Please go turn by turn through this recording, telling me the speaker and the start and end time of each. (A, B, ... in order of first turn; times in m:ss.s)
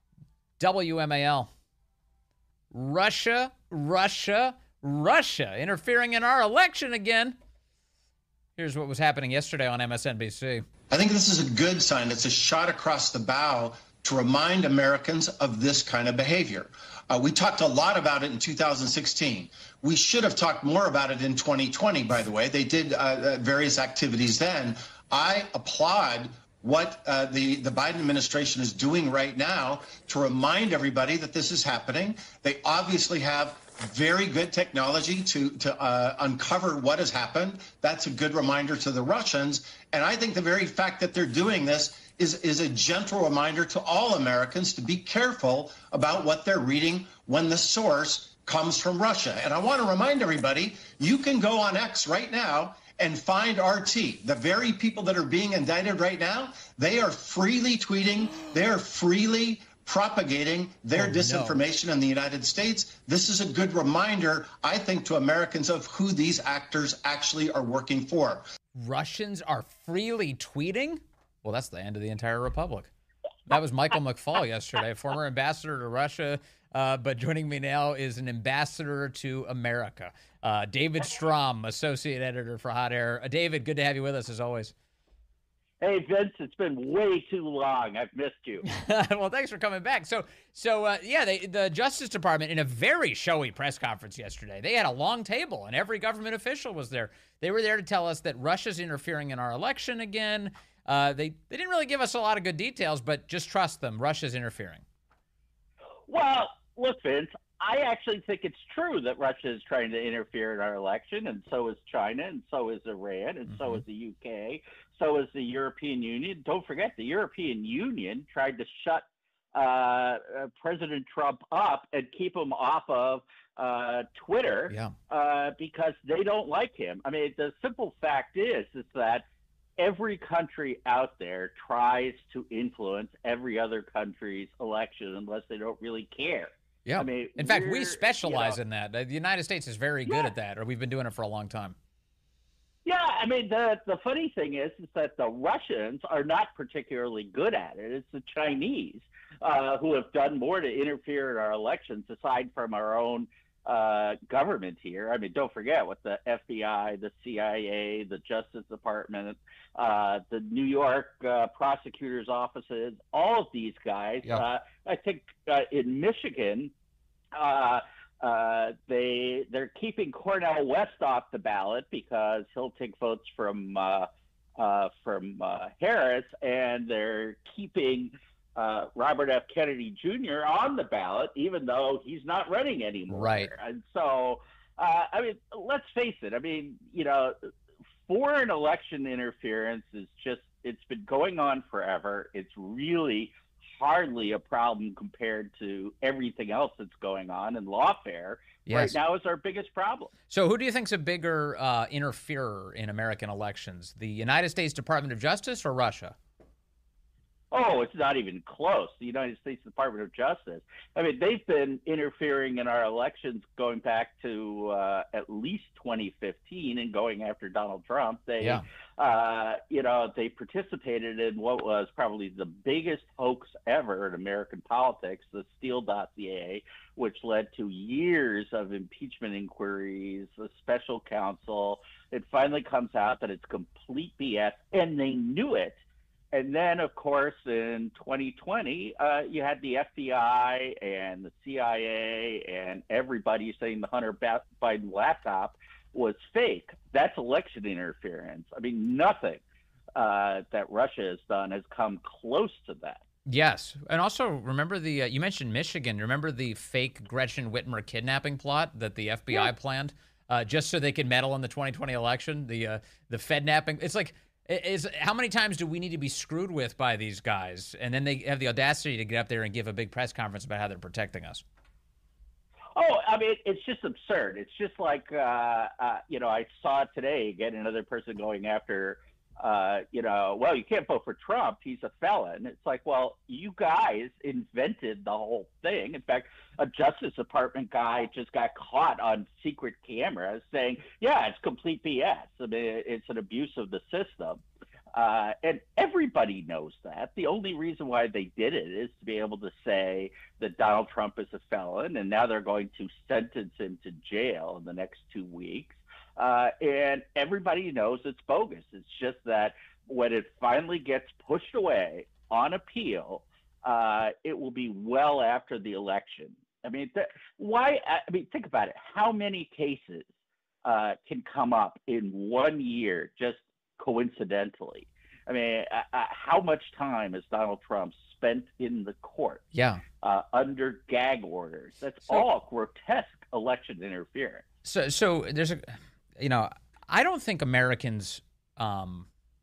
0:00.6-0:01.5 A
0:02.7-0:07.4 A
0:08.6-0:10.7 A
0:10.9-1:08.5 B
1:01.0-1:01.6 A
1:08.8-1:12.9 A
1:13.5-1:24.7 A
1:25.8-1:28.6 C
1:28.6-1:44.8 A
1:46.1-2:09.2 C
1:53.5-1:53.8 A
2:09.8-2:18.6 C
2:16.9-2:21.8 A
2:22.8-2:46.7 C
2:47.3-3:07.4 C
3:03.1-3:03.5 A
3:08.1-3:20.1 C
3:18.7-3:19.0 A
3:20.3-3:26.2 A
3:27.5-3:55.8 C
3:56.3-4:09.4 C
4:10.0-4:13.0 C
4:13.3-4:31.4 A
4:32.8-4:54.4 C
4:54.9-5:20.1 C
5:20.6-5:29.5 C
5:29.5-5:29.8 A
5:30.0-5:34.4 C
5:34.6-5:39.1 A